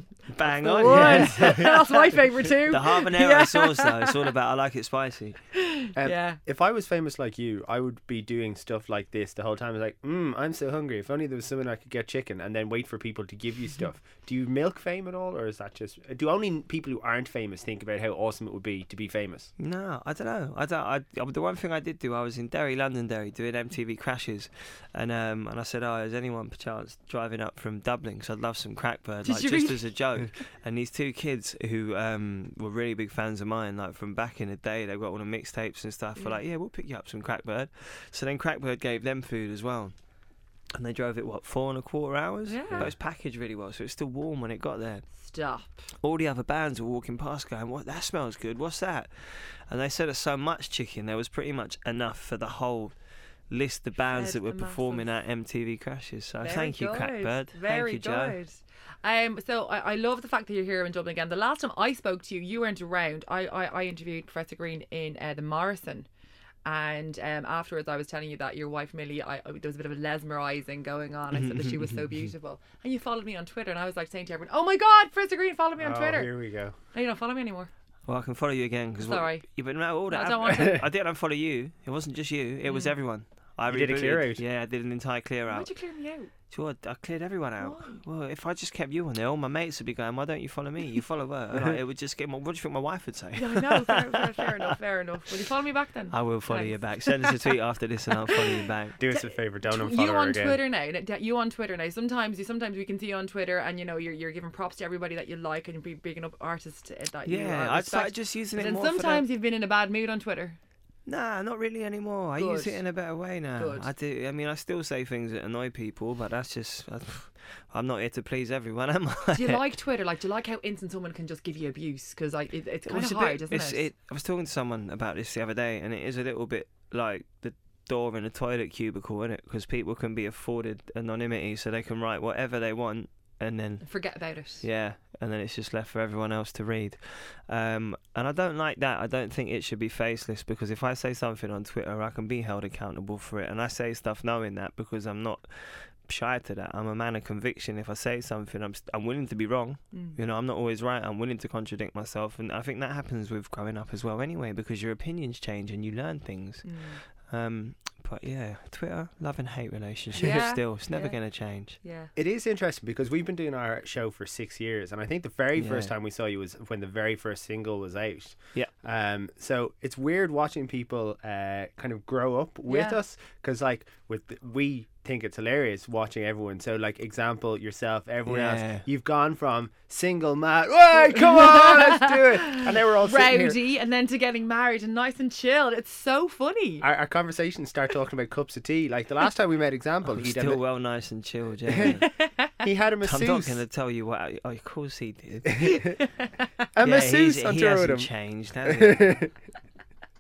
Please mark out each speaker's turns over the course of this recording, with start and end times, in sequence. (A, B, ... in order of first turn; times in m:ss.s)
0:00.3-0:01.7 A
0:00.4-0:04.3 B
0:00.8-0:01.7 C
0:02.6-0:05.4 A
0:05.6-0:06.4 B
0:06.0-0:19.5 C
0:19.6-0:39.9 A
0:29.2-0:29.9 B
0:40.8-0:45.0 A
0:42.5-0:42.9 B
0:45.2-0:45.9 B
0:46.0-0:53.0 A
0:53.5-0:58.4 A
0:54.0-0:55.1 B
0:56.4-1:06.1 B
1:06.6-1:16.3 B
1:11.3-1:12.3 A
1:15.8-1:16.8 C
1:16.9-1:17.7 B
1:18.1-1:25.7 A
1:19.0-1:19.5 B
1:20.1-1:20.8 B
1:22.6-1:23.0 B
1:23.7-1:24.4 C
1:25.5-1:26.3 B
1:26.5-1:34.7 A
1:27.6-1:28.0 B
1:33.4-1:37.6 B
1:36.1-1:39.0 A
1:39.0-1:40.6 C
1:39.1-1:50.6 B
1:47.3-1:49.3 A
1:51.1-1:59.6 A
1:52.4-1:52.8 B
1:53.6-1:53.9 B
1:59.3-2:03.9 B
2:02.9-2:13.9 A
2:13.8-2:14.6 B
2:14.6-2:41.8 A
2:29.9-2:30.2 B
2:36.6-2:37.0 B
2:40.2-2:42.1 B
2:42.2-3:03.6 C
2:45.6-2:45.9 A
2:52.7-2:53.0 B
2:58.3-2:58.9 A
3:01.0-3:06.8 B
3:06.8-3:10.6 C
3:10.1-3:12.1 A
3:11.8-3:12.6 B
3:12.6-3:13.6 C
3:13.0-3:15.8 A
3:15.5-3:15.8 C
3:15.7-3:16.5 B
3:16.8-3:18.1 C
3:16.8-3:19.3 A
3:18.7-3:19.0 C